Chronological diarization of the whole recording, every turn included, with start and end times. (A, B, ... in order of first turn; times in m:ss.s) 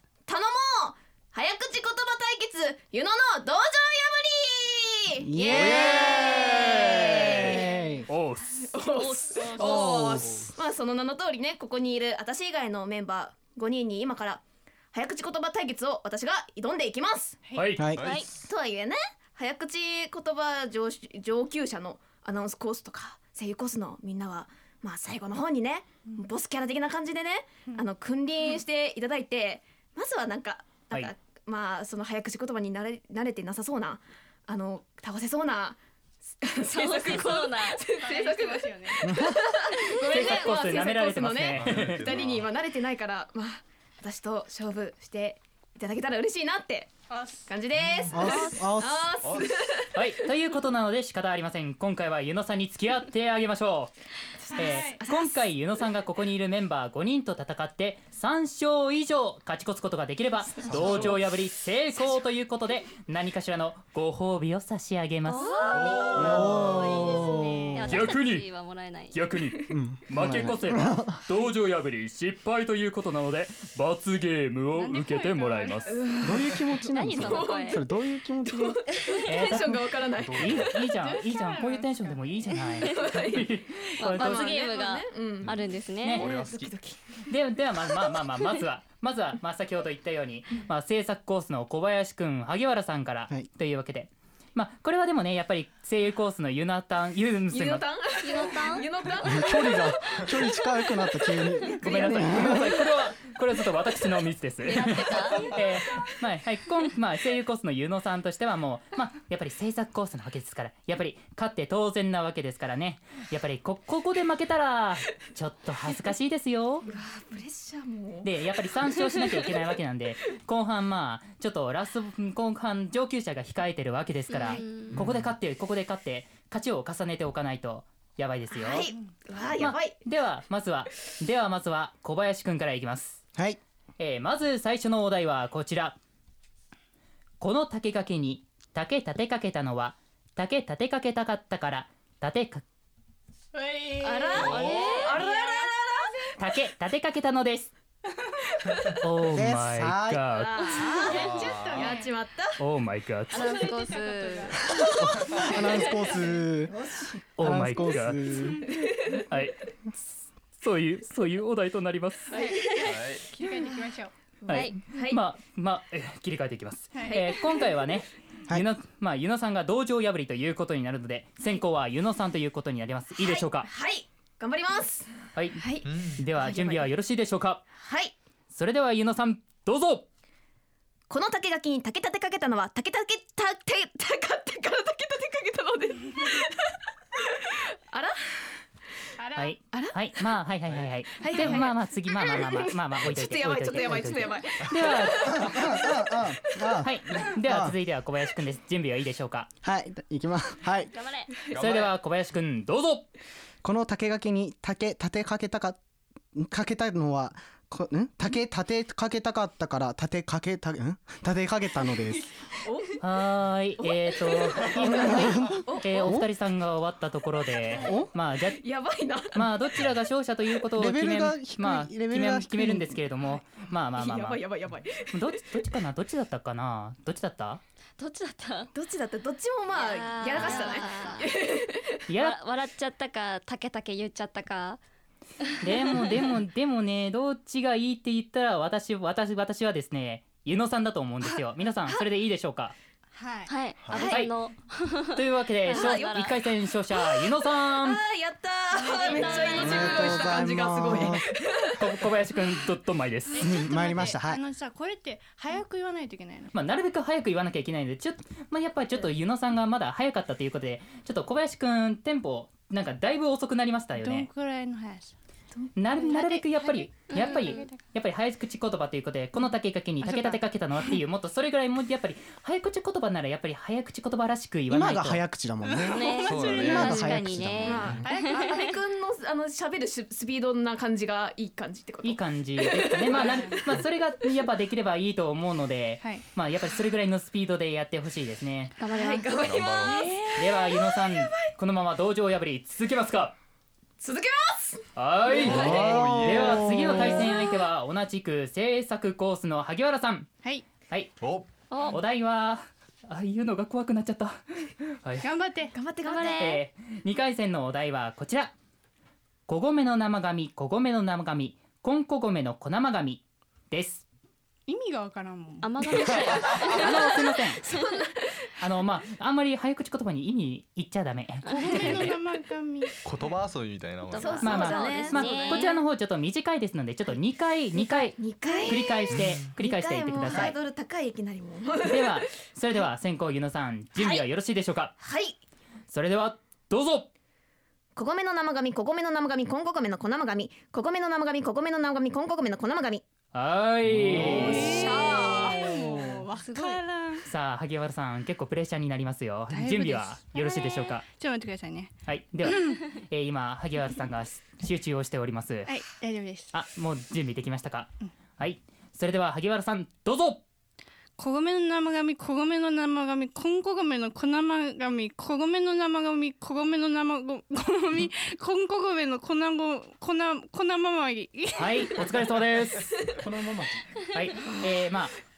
0:00.3-0:08.0 A
0:05.2-0:08.1 B
0:05.5-0:05.9 C
0:08.1-0:08.6 D
0:08.7-0:17.4 A
0:08.8-0:10.2 E
0:09.6-0:10.4 B
0:17.4-0:17.7 F
0:17.5-0:17.8 D
0:17.8-0:18.0 B
0:17.9-0:18.4 C
0:18.4-0:35.8 A
0:36.4-0:46.9 A
0:36.6-0:37.8 E
0:37.9-0:39.1 F
0:39.0-0:39.4 B
0:40.0-0:42.0 D
0:41.5-0:42.5 C
0:47.1-0:47.5 F
0:47.5-0:49.9 A
0:47.8-0:48.4 C
0:48.1-0:49.1 B
0:49.2-0:49.6 C
0:49.9-0:53.9 D
0:54.4-0:55.4 A
0:54.5-0:55.0 F
0:54.6-1:05.5 D
1:00.6-1:01.2 C
1:05.2-1:09.1 E
1:05.6-1:06.4 A
1:05.7-1:06.4 C
1:06.2-1:08.0 B
1:07.3-1:07.6 F
1:07.9-1:08.5 D
1:09.1-1:16.0 D
1:09.7-1:11.2 B
1:14.7-1:16.0 F
1:15.9-1:17.8 A
1:16.2-1:18.8 B
1:16.8-1:17.8 E
1:18.4-1:20.8 A
1:19.2-1:24.5 D
1:20.2-1:20.7 C
1:20.9-1:22.2 F
1:22.7-1:25.6 A
1:24.0-1:26.3 E
1:26.0-1:26.3 D
1:26.1-1:26.7 C
1:26.2-1:27.0 A
1:27.3-1:37.8 D
1:37.5-1:41.0 A
1:38.2-1:38.9 E
1:39.2-1:42.7 B
1:41.6-1:42.4 A
1:41.8-1:56.9 D
1:44.6-1:45.5 E
1:56.8-1:58.3 A
1:58.2-2:08.9 D
1:58.9-1:59.5 A
2:04.3-2:05.0 E
2:04.9-2:05.3 C
2:08.5-2:10.0 A
2:09.6-2:13.2 D
2:14.0-2:16.0 D
2:17.4-2:22.6 D
2:23.5-2:25.8 F
2:24.0-2:26.2 A
2:24.0-2:25.1 E
2:24.5-2:24.8 C
2:26.4-2:27.7 D
2:29.0-2:30.8 D
2:29.3-2:30.3 B
2:30.3-2:32.6 A
2:30.9-2:32.1 F
2:31.0-2:32.0 C
2:32.6-2:33.6 D
2:33.3-2:34.7 F
2:33.3-2:34.6 E
2:34.6-2:35.6 A
2:35.0-2:38.7 B
2:35.8-2:36.2 F
2:37.4-2:38.2 D
2:39.3-2:39.6 D
2:40.6-2:42.3 D
2:42.3-2:44.1 F
2:42.3-2:42.8 A
2:42.8-2:43.3 C
2:44.5-2:53.7 D
2:44.5-2:45.2 A
2:44.5-2:44.8 E
2:46.9-2:47.2 F
2:47.0-2:47.6 A
2:53.2-2:56.9 A
2:55.3-2:55.6 D
2:55.8-2:56.2 C
2:56.2-2:57.6 D
2:57.8-2:58.1 A
2:58.5-3:00.0 D
3:01.1-3:06.6 A
3:07.9-3:08.3 A
3:09.2-3:09.6 F
3:09.4-3:15.5 D
3:09.7-3:10.0 A
3:11.2-3:16.2 A
3:15.2-3:17.8 B
3:16.8-3:19.5 D
3:19.6-3:20.9 B
3:20.9-3:21.3 E
3:21.5-3:21.9 C
3:21.5-3:23.1 D
3:23.6-3:25.8 B
3:26.3-3:32.3 B
3:32.6-3:33.0 A
3:33.0-3:38.6 D
3:33.8-3:36.2 A
3:34.7-3:36.3 B
3:37.8-3:38.1 B
3:38.5-3:39.5 A
3:39.3-3:44.4 D
3:40.8-3:43.0 B
3:43.9-3:45.2 A
3:45.1-3:47.6 D
3:48.0-3:48.7 E
3:48.7-3:52.0 A
3:49.7-3:51.3 E
3:52.1-3:52.4 D
3:52.2-3:54.8 E
3:55.6-4:02.7 D
4:03.1-4:03.5 F
4:03.5-4:06.3 E
4:03.8-4:04.1 C
4:03.9-4:04.3 D
4:03.9-4:04.2 A
4:05.1-4:08.0 D
4:05.7-4:06.3 A
4:07.0-4:12.1 A
4:08.7-4:09.7 F
4:08.8-4:10.2 E
4:09.6-4:11.3 B
4:11.8-4:13.5 D
4:13.3-4:16.5 F
4:13.4-4:14.4 B
4:16.5-4:24.3 D
4:24.0-4:25.1 F
4:25.8-4:35.2 D
4:26.0-4:27.8 F
4:27.1-4:27.7 E
4:30.0-4:30.4 F
4:34.7-4:38.0 B
4:35.6-4:37.1 F
4:35.9-4:38.7 E
4:36.2-4:37.0 C
4:37.6-4:43.6 A
4:38.0-4:38.7 F
4:42.0-4:48.7 D
4:43.1-4:43.6 F
4:48.8-4:49.3 E
4:48.9-4:51.5 A
4:49.3-4:50.2 C
4:50.3-4:53.3 D
4:54.0-4:56.0 A
4:55.0-5:00.3 D
4:55.4-4:57.3 B
4:55.4-4:56.8 C
5:01.2-5:01.5 C
5:01.7-5:02.0 E
5:01.8-5:05.3 D
5:05.2-5:05.7 F
5:05.7-5:06.6 A
5:06.0-5:06.6 E
5:06.3-5:08.5 D
5:09.5-5:14.0 D
5:14.7-5:16.5 F
5:15.6-5:17.1 E
5:16.6-5:17.0 A
5:16.7-5:17.6 D
5:17.6-5:18.3 A
5:18.6-5:22.2 D
5:21.5-5:22.1 E
5:21.5-5:22.9 F
5:23.0-5:24.7 C
5:24.1-5:25.8 E
5:24.2-5:25.7 A
5:24.4-5:30.6 D
5:27.8-5:32.2 A
5:29.1-5:29.5 C
5:31.8-5:34.9 D
5:34.0-5:34.2 A
5:35.0-5:35.4 A
5:35.9-5:37.1 D
5:38.0-5:43.0 A
5:43.3-5:44.8 D
5:44.2-5:47.2 F
5:44.5-5:45.6 A
5:46.5-5:46.8 E
5:47.2-5:51.0 D
5:49.5-5:52.8 F
5:52.1-5:55.7 D
5:55.6-5:56.5 F
5:56.5-6:00.4 D
6:01.2-6:12.0 F
6:11.5-6:13.0 D
6:13.1-6:13.8 B
6:14.1-6:15.1 D